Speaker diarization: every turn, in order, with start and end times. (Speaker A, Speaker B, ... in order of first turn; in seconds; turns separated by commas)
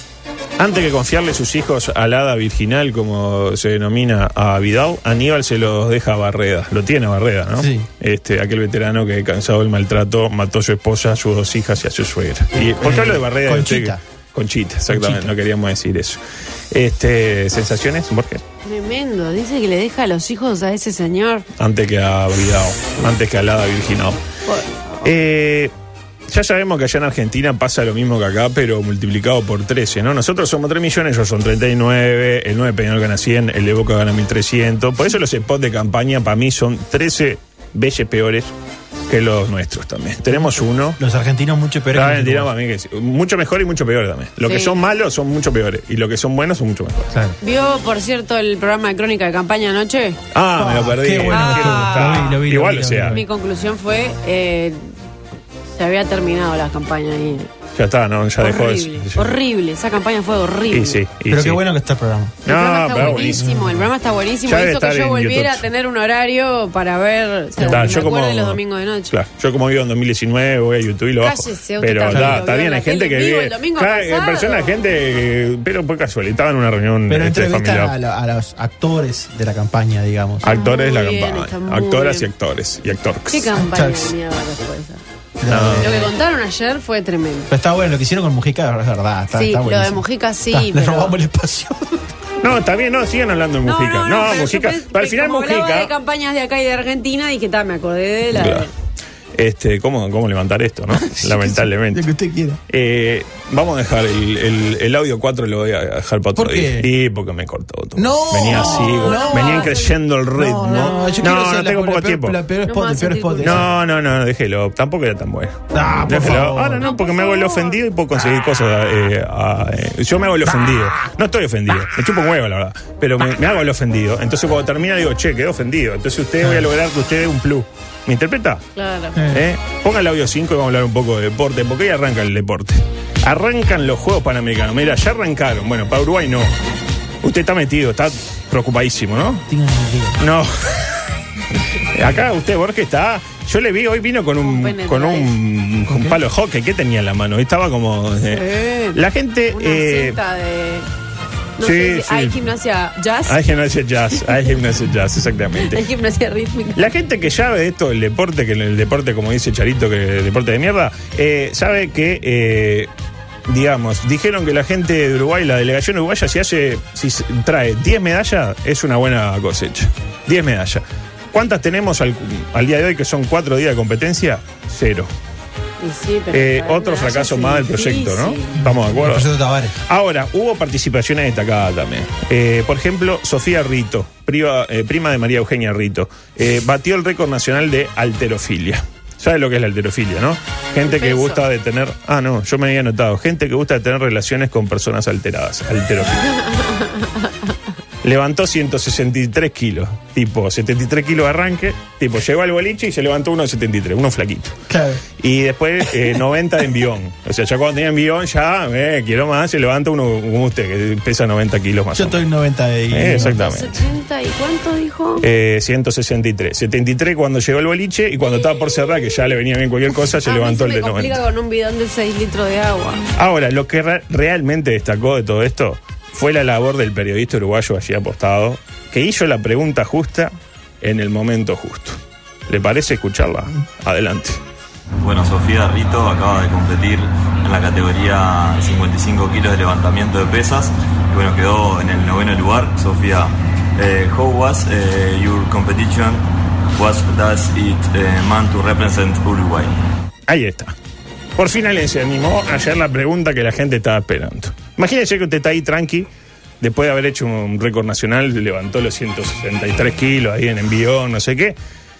Speaker A: 0.6-16.2, Speaker B: 7.6-7.9, Speaker B: 12.8-14.0, Speaker B: 14.9-15.3, Speaker A: 16.7-18.4, Speaker C: 18.6-21.4, Speaker A: 21.6-24.2, Speaker C: 24.4-25.0, Speaker A: 25.0-25.7, Speaker A: 26.3-38.5, Speaker A: 39.1-41.0, Speaker B: 41.0-42.5, Speaker A: 41.9-47.0, Speaker C: 44.4-44.8, Speaker B: 47.1-47.4, Speaker C: 47.4-50.2, Speaker A: 50.3-53.2, Speaker B: 50.5-53.2, Speaker C: 51.3-52.4, Speaker C: 53.1-54.8, Speaker C: 55.7-57.5, Speaker A: 57.8-59.4, Speaker C: 58.4-61.0, Speaker A: 60.7-61.6, Speaker B: 61.3-63.9, Speaker A: 62.5-63.4, Speaker C: 62.5-69.1, Speaker A: 64.5-65.7, Speaker B: 67.6-68.1, Speaker A: 67.6-77.9, Speaker C: 71.2-74.7, Speaker B: 72.1-72.5, Speaker B: 77.1-80.5, Speaker A: 80.4-83.6, Speaker C: 80.4-82.3, Speaker C: 83.3-85.0, Speaker B: 83.6-84.1, Speaker B: 85.4-86.1, Speaker A: 85.5-86.0, Speaker C: 85.8-87.5, Speaker B: 87.5-92.1, Speaker C: 89.3-91.1, Speaker A: 92.4-95.9, Speaker C: 93.6-98.7, Speaker A: 98.3-98.7, Speaker A: 99.3-102.0, Speaker B: 100.9-102.6, Speaker A: 102.7-112.4, Speaker B: 106.3-106.9, Speaker B: 107.9-109.7, Speaker C: 108.5-110.0, Speaker B: 110.3-113.7, Speaker C: 110.7-111.3, Speaker C: 112.7-113.7, Speaker A: 113.4-128.6, Speaker B: 115.7-116.9, Speaker C: 116.8-117.8, Speaker B: 126.4-126.7, Speaker C: 128.8-129.2, Speaker B: 129.1-129.4, Speaker A: 129.3-136.5, Speaker A: 137.2-139.4, Speaker B: 139.5-140.2, Speaker A: 140.2-141.1, Speaker A: 141.8-150.2, Speaker C: 144.4-145.3, Speaker B: 145.9-146.2, Speaker C: 148.3-149.0, Speaker C: 149.5-150.9, Speaker C: 151.6-153.4, Speaker A: 151.6-152.5, Speaker A: 153.2-155.8, Speaker C: 155.6-156.8, Speaker A: 156.8-162.9, Speaker A: 163.5-175.1, Speaker C: 175.8-178.6, Speaker A: 176.3-196.4, Speaker B: 178.6-179.8, Speaker C: 190.8-191.4, Speaker C: 196.5-197.1, Speaker A: 198.0-204.6, Speaker B: 204.7-205.0, Speaker A: 205.2-212.3, Speaker B: 211.9-213.4, Speaker A: 212.9-213.8, Speaker C: 213.1-215.2, Speaker A: 215.2-221.2, Speaker C: 220.2-223.0, Speaker A: 223.2-234.4, Speaker D: 235.0-249.7, Speaker A: 250.3-250.7, Speaker A: 251.4-256.1, Speaker A: 256.6-261.6